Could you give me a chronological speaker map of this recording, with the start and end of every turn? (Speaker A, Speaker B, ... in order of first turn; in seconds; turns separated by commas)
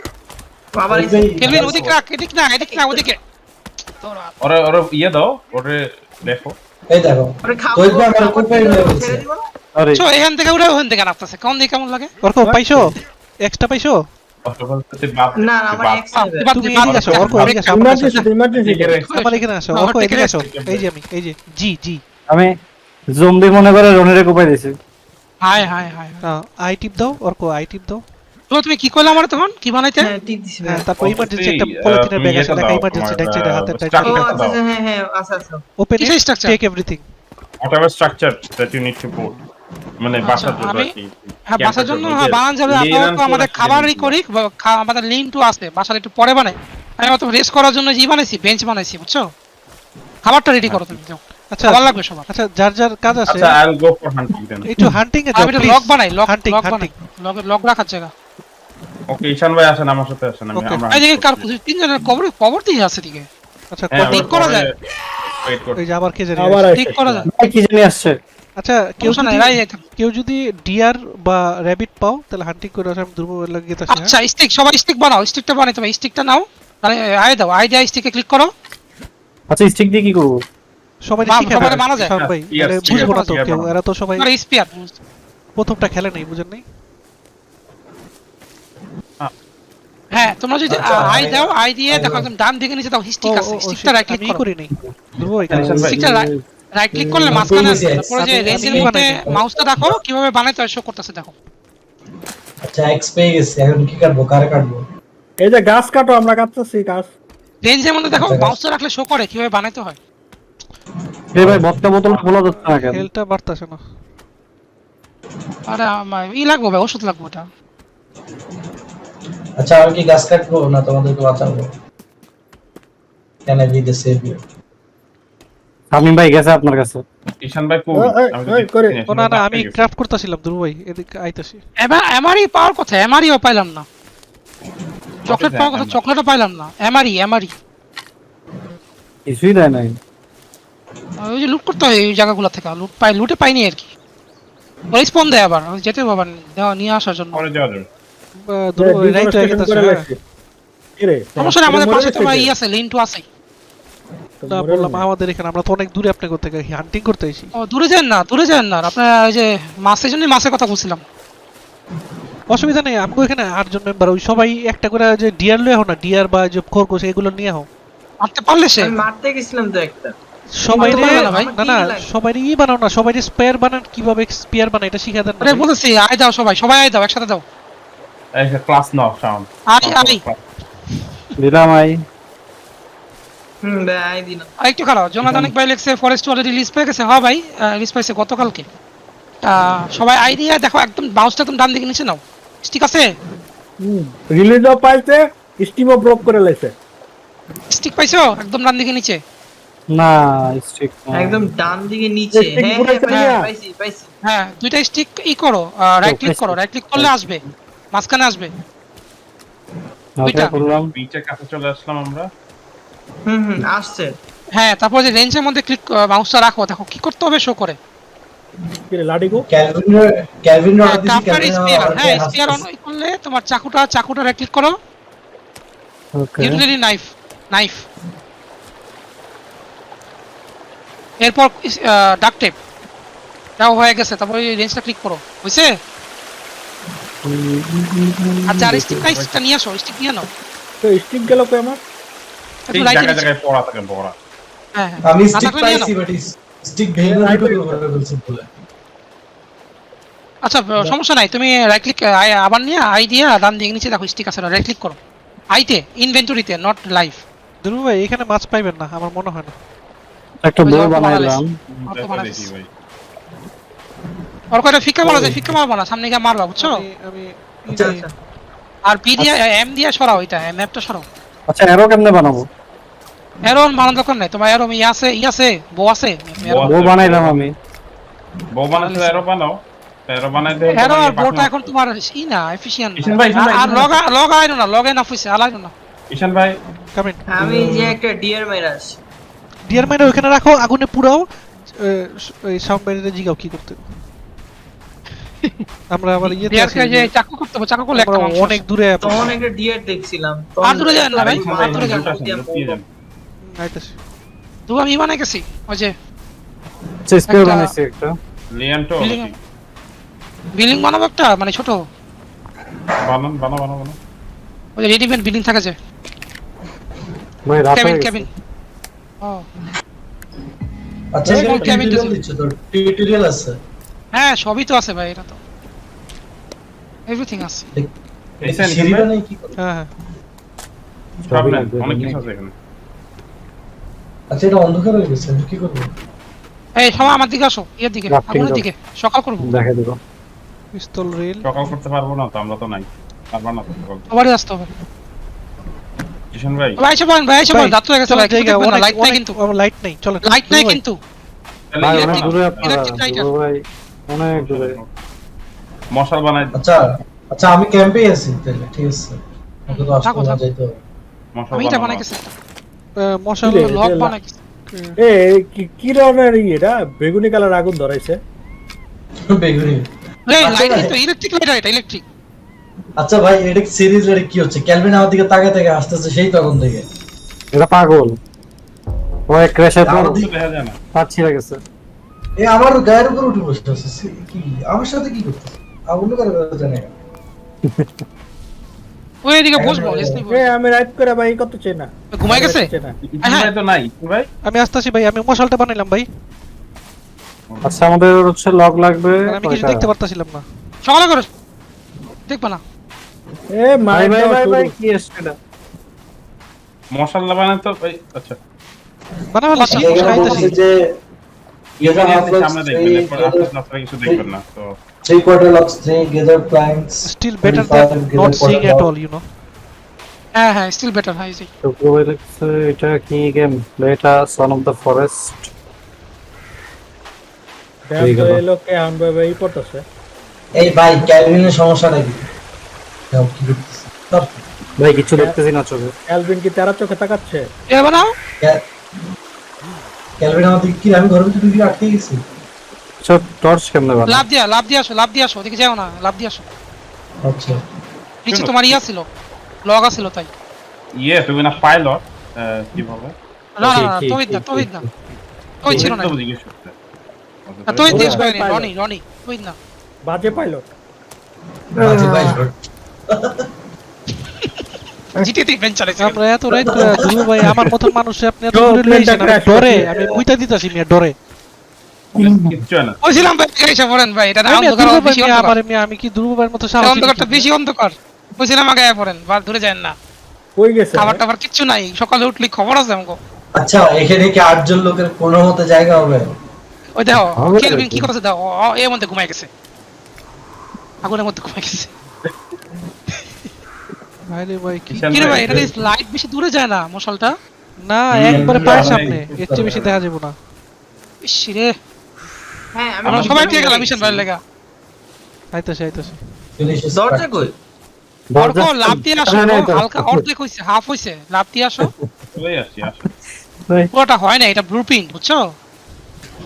Speaker A: 0.7-1.9, Speaker B: 0.9-2.0, Speaker C: 1.4-3.2, Speaker A: 2.6-3.0, Speaker C: 4.0-4.3, Speaker D: 4.4-6.6, Speaker B: 6.9-9.2, Speaker A: 7.4-9.4, Speaker E: 9.8-10.0, Speaker C: 9.9-12.1, Speaker F: 12.2-14.0, Speaker D: 14.4-16.1, Speaker A: 15.3-16.5, Speaker C: 16.1-18.3, Speaker F: 16.5-18.1, Speaker D: 16.8-17.5, Speaker G: 17.7-19.1, Speaker D: 18.5-19.1, Speaker F: 19.1-22.0, Speaker C: 19.1-20.4, Speaker D: 20.4-20.9, Speaker E: 22.3-22.6, Speaker E: 23.1-24.8, Speaker C: 25.4-26.2, Speaker F: 26.2-28.0, Speaker C: 28.5-30.1, Speaker A: 30.0-30.9, Speaker F: 30.6-34.4, Speaker D: 31.0-34.6, Speaker A: 34.0-35.6, Speaker F: 35.8-37.0, Speaker C: 36.0-36.6, Speaker D: 37.6-39.4, Speaker D: 40.0-44.2, Speaker C: 40.2-40.9, Speaker C: 41.5-49.2, Speaker C: 50.2-52.3, Speaker D: 50.6-51.0, Speaker F: 51.5-53.6, Speaker D: 53.3-54.7, Speaker F: 54.7-56.9, Speaker C: 55.3-58.1, Speaker D: 59.1-61.5, Speaker F: 60.5-60.8, Speaker C: 60.9-63.3, Speaker F: 63.7-64.4, Speaker D: 63.9-64.7, Speaker C: 64.1-64.7, Speaker D: 65.3-65.9, Speaker F: 65.8-66.7, Speaker G: 66.4-67.2, Speaker C: 66.7-67.3, Speaker E: 67.3-68.2, Speaker F: 68.6-74.2, Speaker C: 69.0-69.8, Speaker C: 73.9-78.5, Speaker E: 79.5-80.4, Speaker F: 81.1-84.3, Speaker C: 81.3-82.2, Speaker D: 81.6-83.8, Speaker C: 82.8-83.4, Speaker C: 84.2-84.9, Speaker F: 85.6-86.6, Speaker C: 90.1-94.4, Speaker B: 90.7-92.3, Speaker F: 93.2-96.0, Speaker B: 95.5-95.9, Speaker E: 95.5-96.4, Speaker D: 95.8-96.0, Speaker C: 95.9-101.3, Speaker E: 96.9-97.5, Speaker B: 97.3-100.0, Speaker F: 97.5-99.2, Speaker B: 102.6-104.8, Speaker G: 105.4-107.1, Speaker C: 107.6-110.0, Speaker B: 108.2-108.6, Speaker E: 111.3-113.1, Speaker B: 111.4-111.7, Speaker F: 112.4-113.8, Speaker C: 115.7-117.5, Speaker B: 119.6-121.7, Speaker B: 123.5-124.4, Speaker E: 125.9-127.0, Speaker D: 127.4-129.8, Speaker G: 127.9-129.0, Speaker F: 129.1-131.6, Speaker C: 131.8-133.9, Speaker D: 135.2-136.0, Speaker C: 135.3-137.5, Speaker E: 139.3-140.0, Speaker C: 141.2-143.9, Speaker C: 144.9-147.4, Speaker D: 147.3-147.9, Speaker F: 148.5-150.1, Speaker G: 148.8-150.2, Speaker G: 151.0-152.5, Speaker C: 151.4-153.2, Speaker G: 154.4-155.1, Speaker F: 154.5-157.5, Speaker C: 157.6-161.0, Speaker F: 162.5-167.7, Speaker C: 168.2-168.9, Speaker A: 168.8-170.2, Speaker F: 170.6-175.7, Speaker A: 170.7-172.1, Speaker C: 170.8-171.5, Speaker C: 175.4-177.4, Speaker D: 178.3-180.4, Speaker C: 179.7-180.2, Speaker E: 181.4-182.0, Speaker A: 183.6-184.5, Speaker C: 184.6-188.6, Speaker C: 189.5-193.0, Speaker G: 193.8-196.7, Speaker C: 197.7-199.2, Speaker E: 199.9-201.5, Speaker A: 201.1-204.1, Speaker G: 202.3-203.5, Speaker C: 204.2-207.4, Speaker E: 206.0-207.3, Speaker C: 207.9-208.5, Speaker E: 210.2-210.9, Speaker C: 210.2-210.5, Speaker D: 210.9-212.3, Speaker A: 213.3-214.2, Speaker C: 214.6-217.8, Speaker G: 218.9-219.5, Speaker B: 219.5-222.6, Speaker C: 220.8-224.7, Speaker E: 226.1-226.6, Speaker C: 226.4-227.9, Speaker C: 231.2-232.6, Speaker C: 233.6-235.8, Speaker E: 237.2-239.1, Speaker C: 238.5-240.3, Speaker D: 239.1-239.4, Speaker G: 240.8-241.8, Speaker C: 242.7-243.3, Speaker D: 242.7-244.2, Speaker C: 244.8-245.9, Speaker B: 245.0-248.5, Speaker G: 247.0-247.8, Speaker C: 250.4-255.0, Speaker C: 255.5-257.2, Speaker F: 257.6-259.5, Speaker E: 260.4-261.6, Speaker C: 260.6-262.5, Speaker D: 261.7-262.7, Speaker C: 264.5-266.8, Speaker E: 265.0-265.5, Speaker F: 266.6-268.1, Speaker C: 268.9-271.1, Speaker E: 271.5-272.5, Speaker C: 273.4-276.7, Speaker D: 276.4-277.4, Speaker E: 276.6-277.5, Speaker D: 278.5-281.8, Speaker C: 278.8-279.2, Speaker C: 280.8-285.7, Speaker D: 283.0-283.9, Speaker G: 283.4-283.9, Speaker D: 286.1-286.6, Speaker F: 286.9-287.2, Speaker A: 287.3-289.0, Speaker B: 287.4-288.0, Speaker F: 289.7-291.2, Speaker F: 291.8-293.9, Speaker F: 295.9-297.1, Speaker C: 296.5-298.6, Speaker F: 297.9-299.4, Speaker A: 299.0-302.8, Speaker C: 300.6-301.8, Speaker D: 301.1-302.9, Speaker F: 303.6-304.0, Speaker C: 304.7-305.9, Speaker E: 307.1-308.2, Speaker C: 307.3-307.7, Speaker D: 308.5-309.4, Speaker C: 309.0-309.3, Speaker C: 310.6-311.8, Speaker D: 313.0-314.0, Speaker C: 314.8-315.8, Speaker E: 317.5-318.3, Speaker C: 317.7-318.3, Speaker B: 321.1-323.6, Speaker G: 321.3-321.9, Speaker C: 321.3-322.1, Speaker C: 324.1-325.4, Speaker C: 327.1-327.7, Speaker D: 328.4-329.1, Speaker B: 328.4-329.6, Speaker F: 329.6-329.9, Speaker E: 331.3-332.2, Speaker D: 331.3-332.5, Speaker B: 334.3-335.9, Speaker C: 336.8-339.5, Speaker E: 338.1-338.7, Speaker E: 339.4-340.0, Speaker F: 340.7-341.5, Speaker D: 341.4-344.1, Speaker C: 344.1-344.7, Speaker D: 346.3-346.8, Speaker C: 346.8-349.4, Speaker F: 347.4-350.8, Speaker C: 350.2-351.0, Speaker D: 351.7-352.9, Speaker E: 351.8-354.8, Speaker C: 351.9-353.3, Speaker D: 354.3-354.9, Speaker D: 355.9-356.6, Speaker B: 356.6-356.8, Speaker B: 357.3-360.8, Speaker C: 359.7-360.4, Speaker D: 361.3-362.1, Speaker C: 361.5-362.3, Speaker F: 363.1-364.1, Speaker G: 363.4-364.1, Speaker C: 363.7-364.4, Speaker F: 364.7-365.0, Speaker G: 365.0-368.2, Speaker B: 369.3-369.9, Speaker C: 370.3-372.0, Speaker B: 370.4-371.0, Speaker B: 373.0-376.9, Speaker E: 377.5-378.2, Speaker E: 379.3-380.2, Speaker B: 379.8-380.3, Speaker D: 380.2-380.8, Speaker E: 380.9-381.6, Speaker B: 382.4-386.9, Speaker C: 389.2-390.5, Speaker B: 389.6-390.2, Speaker G: 389.7-393.0, Speaker C: 392.1-392.7, Speaker D: 393.0-394.3, Speaker C: 393.2-393.5, Speaker F: 394.4-396.1, Speaker E: 397.6-399.9, Speaker F: 399.3-400.4, Speaker C: 400.8-401.3, Speaker C: 402.3-402.6, Speaker G: 403.5-404.8, Speaker E: 403.9-405.4, Speaker D: 406.9-408.4, Speaker F: 409.3-410.6, Speaker C: 409.5-410.5, Speaker B: 409.6-410.8, Speaker D: 411.8-414.8, Speaker B: 411.8-413.5, Speaker B: 415.1-418.9, Speaker F: 417.0-419.2, Speaker C: 420.4-421.5, Speaker E: 421.6-425.5, Speaker G: 427.9-429.9, Speaker E: 428.0-428.4, Speaker B: 430.6-432.2, Speaker E: 431.2-431.5, Speaker B: 433.1-434.4, Speaker E: 434.8-435.9, Speaker G: 436.1-437.4, Speaker C: 437.7-438.1, Speaker B: 440.2-442.2, Speaker E: 443.0-444.3, Speaker C: 444.1-446.4, Speaker B: 447.2-447.6, Speaker C: 448.3-449.1, Speaker D: 448.3-448.8, Speaker C: 449.6-450.3, Speaker D: 451.0-453.1, Speaker C: 453.6-454.8, Speaker E: 453.6-454.9, Speaker C: 455.6-456.1, Speaker D: 455.7-456.8, Speaker D: 457.5-458.2, Speaker C: 457.7-459.6, Speaker G: 457.9-458.7, Speaker G: 460.1-460.7, Speaker B: 461.8-462.5, Speaker E: 462.0-462.3, Speaker B: 463.1-463.4, Speaker C: 465.2-466.2, Speaker F: 466.0-471.1, Speaker B: 466.5-467.5, Speaker E: 467.5-467.7, Speaker G: 468.5-469.9, Speaker B: 469.9-470.2, Speaker D: 472.2-473.3, Speaker E: 472.2-472.5, Speaker C: 473.0-475.5, Speaker F: 474.4-477.5, Speaker C: 476.8-479.9, Speaker G: 480.6-481.2, Speaker C: 480.9-483.2, Speaker B: 483.6-486.3, Speaker C: 487.0-489.5, Speaker E: 487.2-488.1, Speaker C: 491.0-491.9, Speaker F: 494.3-495.4, Speaker D: 494.9-495.7, Speaker C: 495.1-497.3, Speaker B: 495.4-495.7, Speaker F: 497.9-500.3, Speaker B: 498.1-500.0, Speaker D: 498.2-498.9, Speaker C: 501.2-501.8, Speaker A: 502.7-504.0, Speaker D: 503.0-504.3, Speaker C: 503.1-504.4, Speaker F: 505.5-506.2, Speaker B: 506.6-507.4, Speaker A: 506.9-507.5, Speaker E: 508.3-510.3, Speaker C: 508.4-511.9, Speaker E: 511.8-512.1, Speaker D: 512.4-513.1, Speaker C: 513.9-515.4